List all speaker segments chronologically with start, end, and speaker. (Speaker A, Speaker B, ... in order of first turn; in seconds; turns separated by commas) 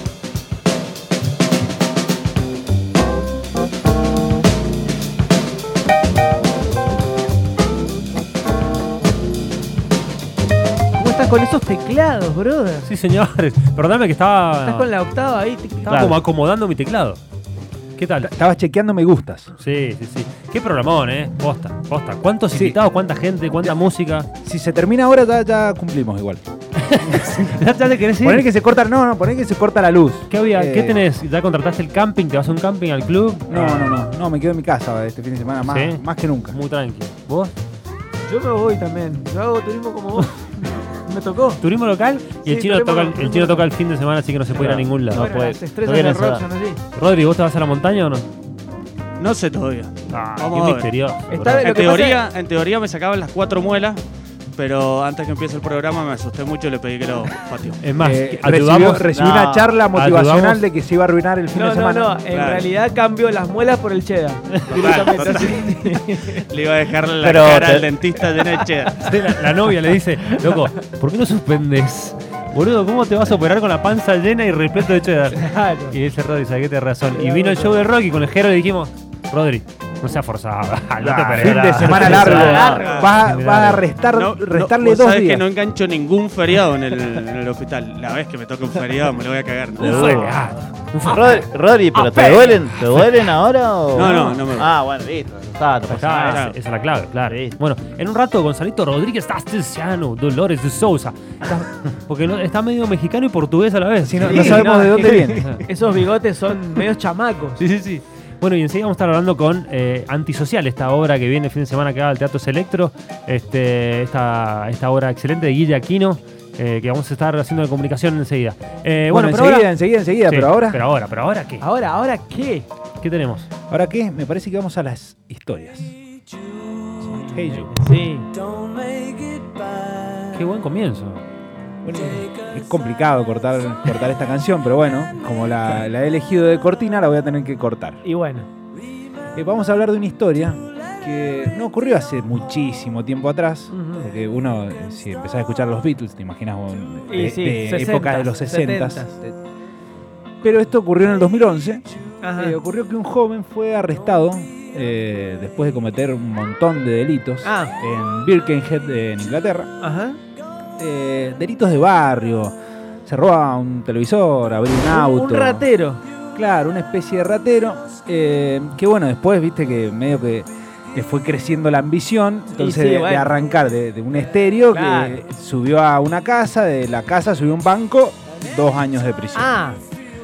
Speaker A: 10.9-12.9, Speaker B: 12.8-14.9, Speaker A: 14.6-16.1, Speaker B: 15.9-17.2, Speaker B: 18.0-18.3, Speaker C: 18.2-19.5, Speaker B: 19.6-24.3, Speaker C: 22.5-22.8, Speaker C: 24.4-26.4, Speaker B: 26.9-28.4, Speaker C: 27.0-27.6, Speaker C: 28.2-31.0, Speaker B: 30.3-34.0, Speaker C: 33.5-36.6, Speaker B: 35.7-37.5, Speaker A: 38.3-41.6, Speaker B: 41.6-45.8, Speaker A: 42.5-43.7, Speaker D: 44.6-45.2, Speaker A: 45.1-46.8, Speaker D: 45.8-46.5, Speaker B: 46.9-48.3, Speaker E: 49.2-50.9, Speaker B: 50.1-51.7, Speaker A: 51.3-52.2, Speaker E: 51.5-54.0, Speaker E: 54.6-57.8, Speaker B: 57.8-59.1, Speaker C: 58.0-62.2, Speaker D: 59.1-59.8, Speaker B: 59.9-60.6, Speaker A: 61.5-66.5, Speaker E: 62.3-62.6, Speaker E: 64.7-69.1, Speaker D: 64.7-65.2, Speaker D: 67.2-67.9, Speaker B: 69.0-82.6, Speaker A: 75.3-76.0, Speaker A: 77.1-77.8, Speaker C: 81.0-85.4, Speaker A: 81.8-83.1, Speaker D: 82.0-82.8, Speaker E: 82.6-83.2, Speaker B: 83.2-83.9, Speaker E: 84.1-90.4, Speaker B: 89.8-91.5, Speaker D: 91.0-96.5, Speaker A: 92.0-92.6, Speaker E: 93.9-94.7, Speaker A: 94.0-94.4, Speaker B: 95.9-104.7, Speaker E: 96.1-96.6, Speaker D: 97.2-97.6, Speaker C: 104.0-105.6, Speaker A: 104.2-107.6, Speaker B: 107.6-119.7, Speaker C: 119.1-120.8, Speaker B: 120.3-121.6, Speaker A: 121.6-122.7, Speaker B: 123.0-123.5, Speaker C: 123.7-125.9, Speaker C: 127.2-127.8, Speaker A: 127.8-129.2, Speaker B: 130.3-131.2, Speaker C: 131.8-138.0, Speaker A: 138.0-138.5, Speaker C: 139.3-149.4, Speaker A: 143.7-144.1, Speaker A: 147.1-149.2, Speaker C: 150.4-159.7, Speaker A: 152.2-152.6, Speaker A: 157.4-157.7, Speaker A: 159.8-160.2, Speaker C: 160.8-165.7, Speaker A: 164.9-166.0, Speaker C: 166.3-179.5, Speaker A: 172.6-173.3, Speaker A: 174.7-175.2, Speaker A: 179.3-179.8